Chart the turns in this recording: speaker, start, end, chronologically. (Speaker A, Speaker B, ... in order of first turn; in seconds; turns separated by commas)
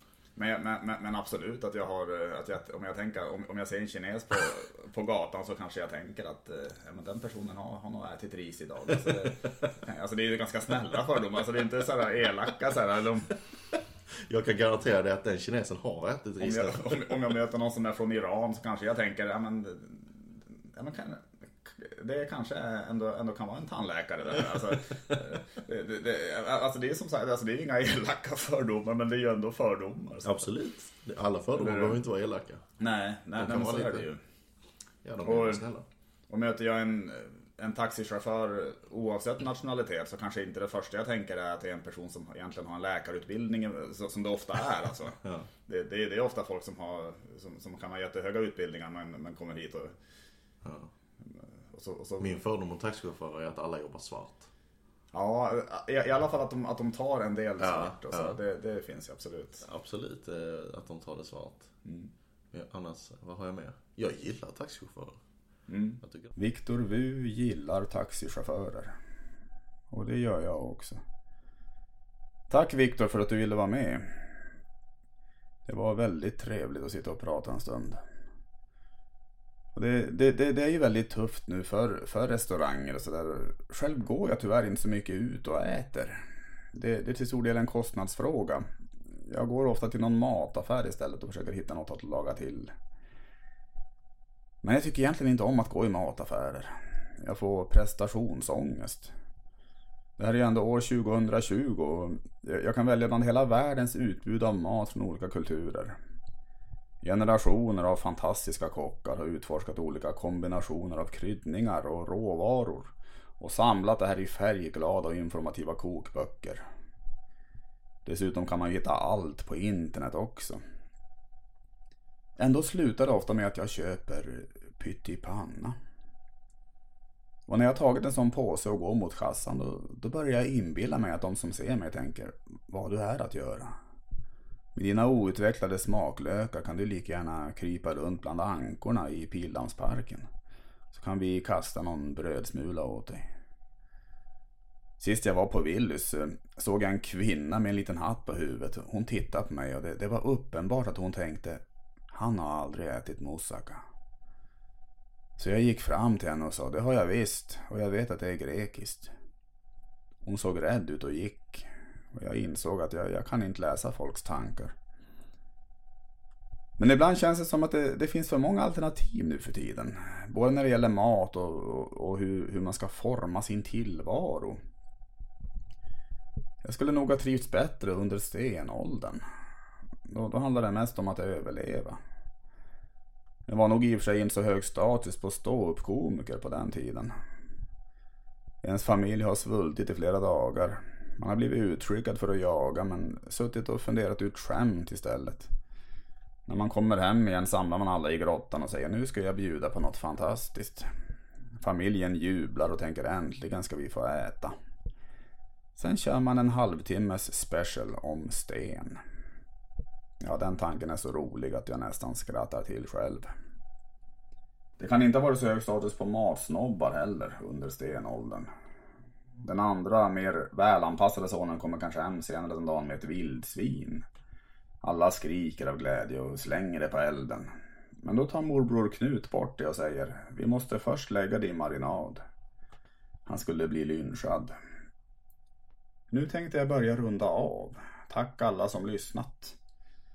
Speaker A: 0.4-13.4, Speaker B: 9.0-9.3, Speaker B: 14.3-17.1, Speaker A: 16.4-30.5, Speaker B: 30.2-32.6, Speaker A: 31.6-32.0, Speaker A: 32.8-34.2, Speaker B: 33.4-34.1, Speaker B: 35.0-35.9, Speaker A: 35.2-35.6, Speaker A: 36.3-50.0, Speaker B: 45.2-45.5, Speaker B: 50.6-50.9, Speaker A: 51.3-52.3, Speaker B: 52.2-54.5, Speaker A: 55.1-59.6, Speaker B: 57.6-58.4, Speaker B: 59.6-61.7, Speaker A: 61.9-62.1, Speaker B: 62.5-65.2, Speaker A: 65.7-69.0, Speaker B: 66.0-66.3, Speaker A: 69.9-71.0, Speaker A: 72.5-74.4, Speaker A: 75.7-78.0, Speaker A: 79.8-86.2, Speaker A: 86.7-88.7, Speaker A: 89.3-92.7, Speaker A: 94.6-99.1, Speaker A: 100.2-106.0, Speaker A: 107.0-116.6, Speaker A: 118.0-120.6, Speaker A: 122.4-125.8, Speaker A: 127.5-133.8, Speaker A: 134.8-140.3, Speaker A: 140.9-143.2, Speaker A: 145.0-153.8, Speaker A: 155.4-159.1, Speaker A: 160.2-164.8, Speaker A: 166.8-174.6, Speaker A: 176.6-179.2, Speaker A: 180.1-182.0, Speaker A: 183.5-187.1, Speaker A: 188.6-195.5, Speaker A: 196.5-200.9, Speaker A: 201.6-204.6, Speaker A: 205.8-209.0, Speaker A: 210.2-213.3, Speaker A: 214.8-218.5, Speaker A: 219.4-224.1, Speaker A: 224.8-227.5, Speaker A: 228.0-232.2, Speaker A: 233.3-234.6, Speaker A: 236.1-239.6